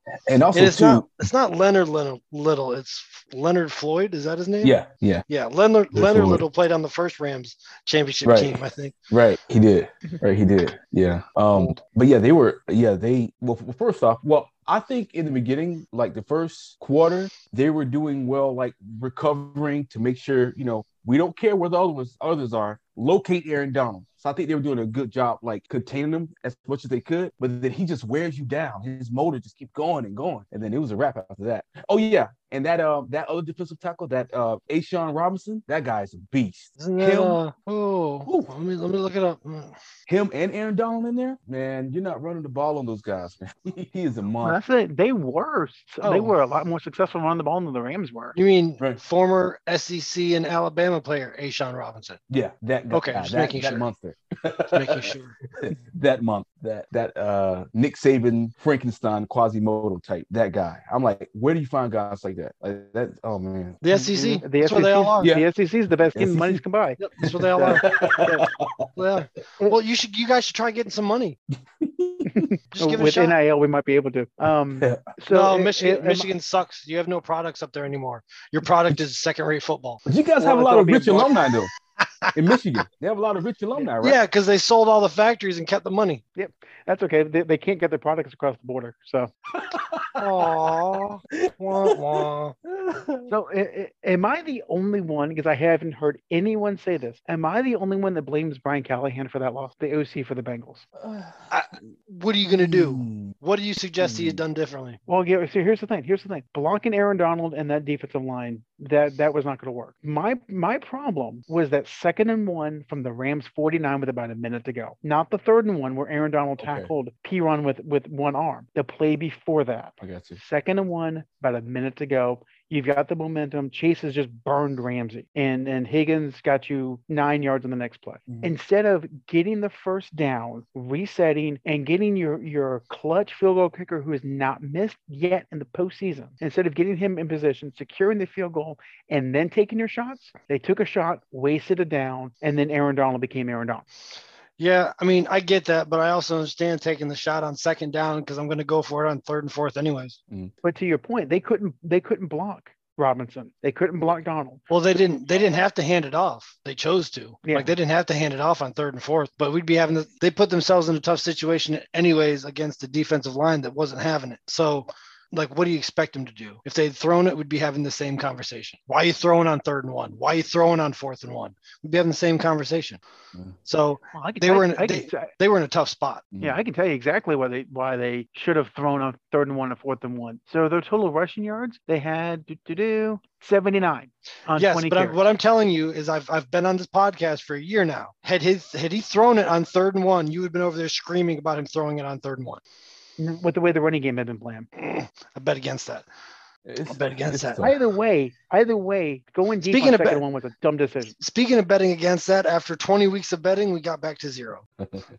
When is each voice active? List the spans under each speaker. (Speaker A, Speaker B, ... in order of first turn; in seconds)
Speaker A: 0.1-1.1, 4.6-5.2, 5.9-6.5, 8.2-8.6, 9.1-37.4, 38.2-38.5, 40.1-44.6, 52.3-63.8, 65.2-65.5, 66.1-66.6, 67.2-68.9, 71.8-72.5, 74.8-75.1, 80.0-81.7, 82.3-84.2, 89.5-90.7, 91.3-93.3, 101.0-101.6, 102.5-103.3, 104.0-104.4, 116.6-116.9, 120.0-120.4, 176.3-176.6, 196.6-197.8, 204.8-205.1
Speaker B: 0.5-4.8, 5.3-9.0, 36.8-39.8, 46.0-46.3, 48.4-52.2, 52.9-53.9, 54.7-55.4, 63.8-65.3, 67.0-67.9, 69.0-71.4, 72.7-73.4, 75.3-80.0, 84.0-86.2, 90.2-92.5, 101.5-105.0, 144.6-150.2, 154.7-173.0, 173.7-176.3, 184.6-192.6, 194.8-196.1, 196.9-197.7, 199.6-200.2, 201.2-204.6
Speaker C: 44.4-48.4, 63.9-67.0, 67.5-68.5, 72.2-76.3, 80.4-81.3, 86.4-89.3, 93.3-100.8, 105.1-143.8, 150.6-154.6, 157.4-157.7, 174.1-175.3, 176.4-185.2, 193.2-194.7, 197.6-201.2